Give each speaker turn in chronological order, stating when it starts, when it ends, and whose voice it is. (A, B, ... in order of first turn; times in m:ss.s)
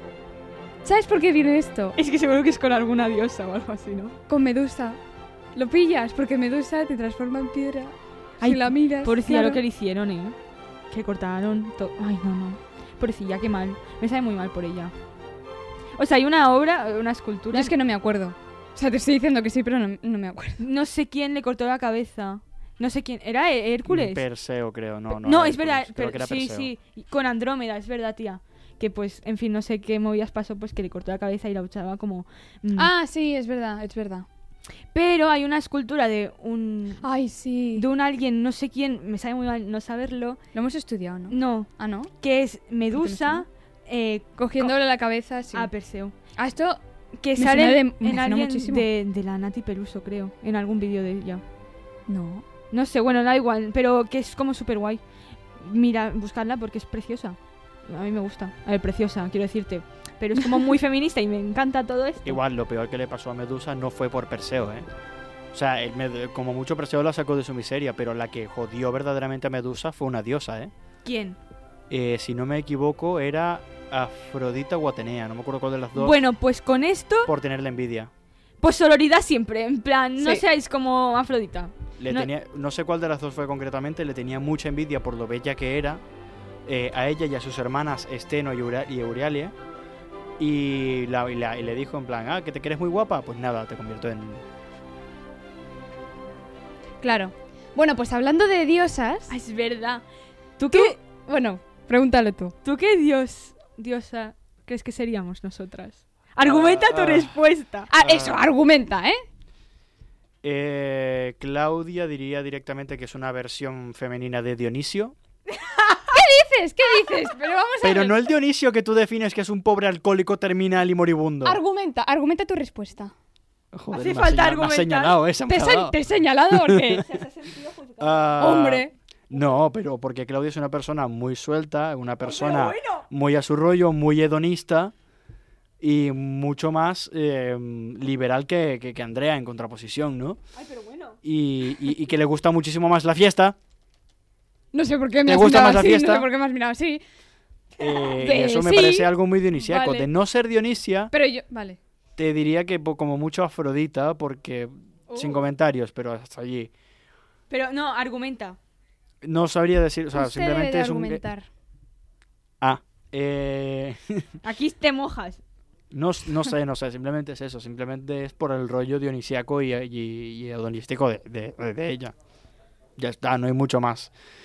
0:00.8-0:02.0 A
0:02.0-0:04.2 B
0:04.3-0:05.0 A
0:05.5-0:09.6 A
0:08.4-0:10.4 B
0:10.9-0:14.9 B
0:16.0-0:17.7 B
0:17.5-0:20.6 A
0:20.6-0:24.2 B
0:23.9-0:26.7 C
0:25.1-0:32.9 B
0:32.8-0:34.3 A
0:34.9-0:37.0 B
0:37.0-0:37.8 A
0:37.7-0:40.4 B
0:40.5-0:42.1 A
0:41.3-0:44.7 B
0:42.9-0:43.4 A
0:44.4-0:45.7 A
0:45.5-0:46.2 B
0:46.4-0:46.8 A
0:47.2-0:51.4 B
0:47.4-0:48.9 A
0:52.1-0:52.4 A
0:52.7-0:55.0 B
0:55.6-1:02.4 B
1:02.2-1:04.9 C
1:05.5-1:10.7 C
1:11.0-1:11.4 B
1:11.9-1:16.2 C
1:16.0-1:17.3 B
1:17.2-1:18.1 C
1:18.6-1:22.3 B
1:22.0-1:26.0 C
1:26.6-1:29.5 C
1:30.4-1:34.4 C
1:37.0-1:39.3 A
1:39.3-1:40.0 B
1:40.6-1:41.0 B
1:40.7-1:42.5 A
1:42.6-1:47.9 B
1:46.4-1:47.4 C
1:47.9-1:49.2 A
1:48.0-1:48.5 C
1:50.4-1:55.2 C
1:55.5-1:56.1 B
1:56.1-1:58.2 A
1:57.8-2:01.6 C
2:01.4-2:03.1 A
2:03.7-2:07.0 C
2:03.9-2:05.2 B
2:05.5-2:07.0 A
2:06.9-2:08.6 B
2:08.0-2:14.9 C
2:08.4-2:08.9 A
2:12.2-2:13.0 B
2:15.8-2:20.4 C
2:20.6-2:21.2 B
2:21.2-2:23.6 C
2:24.7-2:27.0 A
2:25.2-2:26.3 C
2:27.8-2:31.1 C
2:27.8-2:30.1 A
2:31.1-2:31.8 A
2:32.2-2:36.7 C
2:35.1-2:35.4 B
2:37.5-2:38.6 B
2:39.2-2:41.2 C
2:40.1-2:41.5 A
2:42.6-2:44.3 C
2:44.4-2:45.4 B
2:45.9-2:52.1 C
2:53.0-2:54.1 C